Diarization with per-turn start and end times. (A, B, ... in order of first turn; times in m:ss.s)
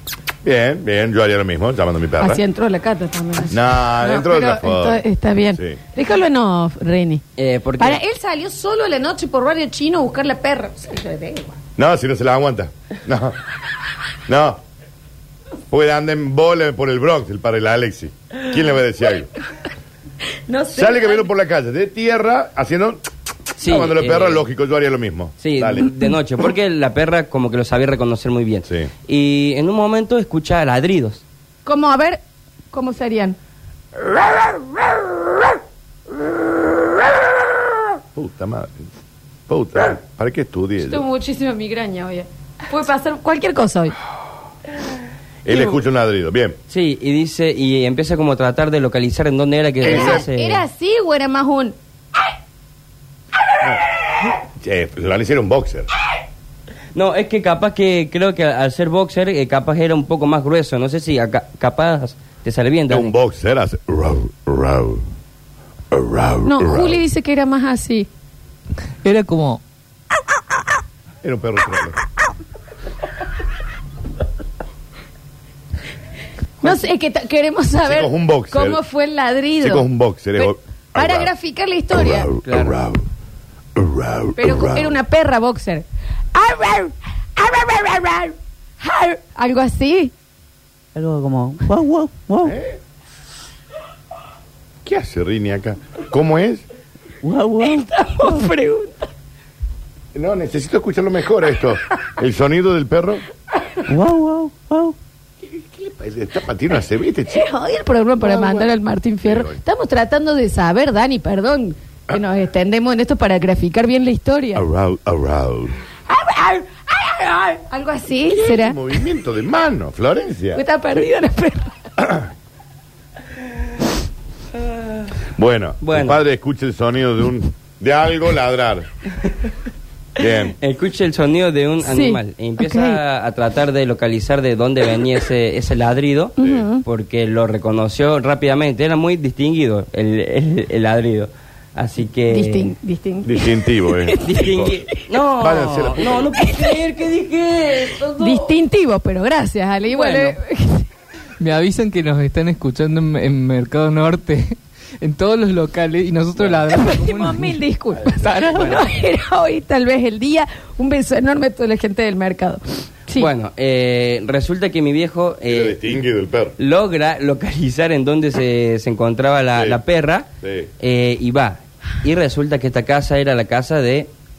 0:00.4-0:02.4 A
0:02.2-0:07.2 B
0:03.5-0:05.0 A
0:07.4-0:08.0 C
0:07.8-0:11.5 B
0:11.8-0:13.4 A
0:14.3-0:14.6 A
0:15.7-0:19.3 A
0:20.5-0:21.3 B
0:20.7-0:23.0 A
0:23.6-0:25.9 A
0:23.6-0:24.4 C
0:25.4-0:31.2 C
0:31.6-0:32.2 B
0:32.7-0:33.4 B
0:38.2-0:38.9 A
0:39.5-0:41.0 A
0:40.8-0:43.9 B
0:45.4-0:46.6 A
0:46.7-0:50.6 C
0:49.8-0:50.2 A
0:49.8-0:51.7 B
0:53.6-0:55.9 A
0:56.9-1:03.1 C
1:02.9-1:05.0 A
1:05.9-1:07.0 A
1:06.4-1:08.1 B
1:09.0-1:09.6 D
1:11.2-1:12.0 A
1:16.6-1:19.8 B
1:17.8-1:18.8 A
1:19.6-1:21.3 A
1:20.4-1:22.3 B
1:21.9-1:23.1 A
1:22.4-1:22.8 C
1:23.8-1:24.9 A
1:24.4-1:30.1 B
1:30.9-1:32.6 E
1:32.4-1:32.8 A
1:34.8-1:36.6 A
1:37.2-1:38.5 E
1:37.6-1:39.1 B
1:40.1-1:43.2 A
1:43.9-1:44.9 E
1:45.4-1:47.5 A
1:47.3-1:54.6 B
1:48.2-1:48.7 A
1:49.2-1:49.6 A
1:54.5-1:55.7 A
1:56.1-1:58.8 B
1:58.3-2:00.6 A
2:00.5-2:01.7 B
2:02.0-2:02.3 A
2:05.4-2:08.9 A
2:05.8-2:06.2 C
2:10.2-2:10.5 A
2:10.3-2:22.7 C
2:11.8-2:13.0 B
2:16.4-2:16.8 B
2:22.3-2:24.4 B
2:23.2-2:24.8 A
2:24.2-2:28.5 C
2:25.4-2:26.3 A
2:26.4-2:26.7 B
2:28.2-2:30.8 B
2:29.9-2:30.4 C
2:31.4-2:37.6 D
2:36.7-2:43.3 B
2:38.2-2:38.8 D
2:43.2-2:46.0 C
2:45.5-2:46.5 A
2:46.6-2:50.3 C
2:50.4-2:50.7 A
2:50.8-2:54.1 C